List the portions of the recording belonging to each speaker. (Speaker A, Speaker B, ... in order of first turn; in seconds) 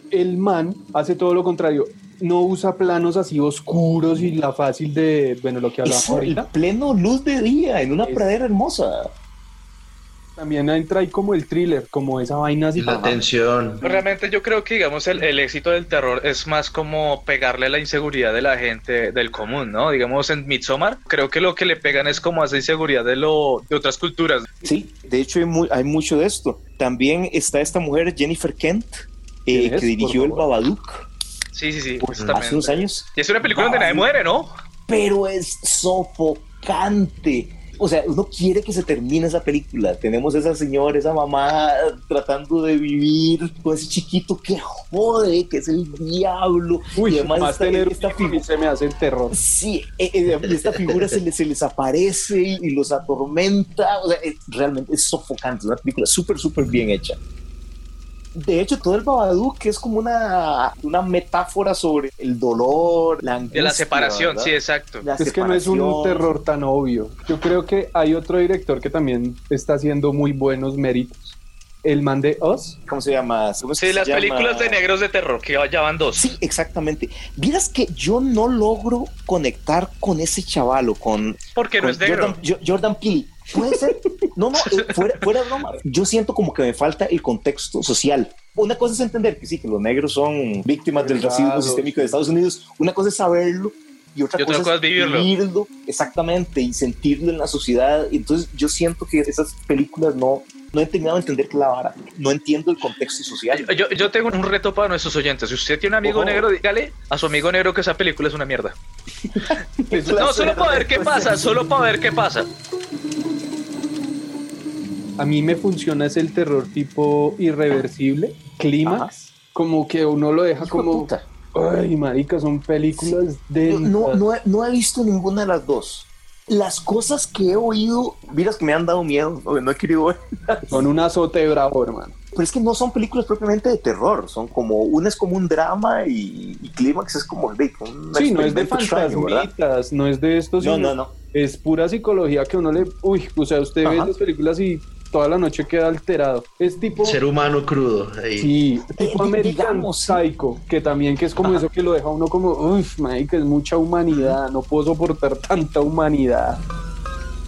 Speaker A: 0.1-6.5, 8.0-8.3, 10.3-13.2, 29.5-30.5, 46.9-49.4, 65.2-72.8, 91.0-92.2, 109.9-110.2, 115.2-124.2, 130.6-132.1, 138.1-147.2, 148.4-156.6
Speaker B: 5.8-9.1, 24.6-31.1, 32.0-34.1, 34.9-48.4, 49.3-57.2, 58.3-66.3, 72.8-74.8, 76.1-103.7, 106.0-106.5, 109.4-111.6, 118.8-119.1, 120.6-121.2, 123.0-130.8, 132.3-139.5, 140.6-141.1, 143.8-144.1, 149.0-150.2
Speaker C: 12.8-13.8, 50.6-51.1, 147.0-148.5
Speaker D: 13.8-24.5, 31.5-34.5, 63.5-65.0, 73.8-76.3, 81.5-82.4, 84.6-85.2, 94.4-95.3, 103.5-108.8, 110.2-112.5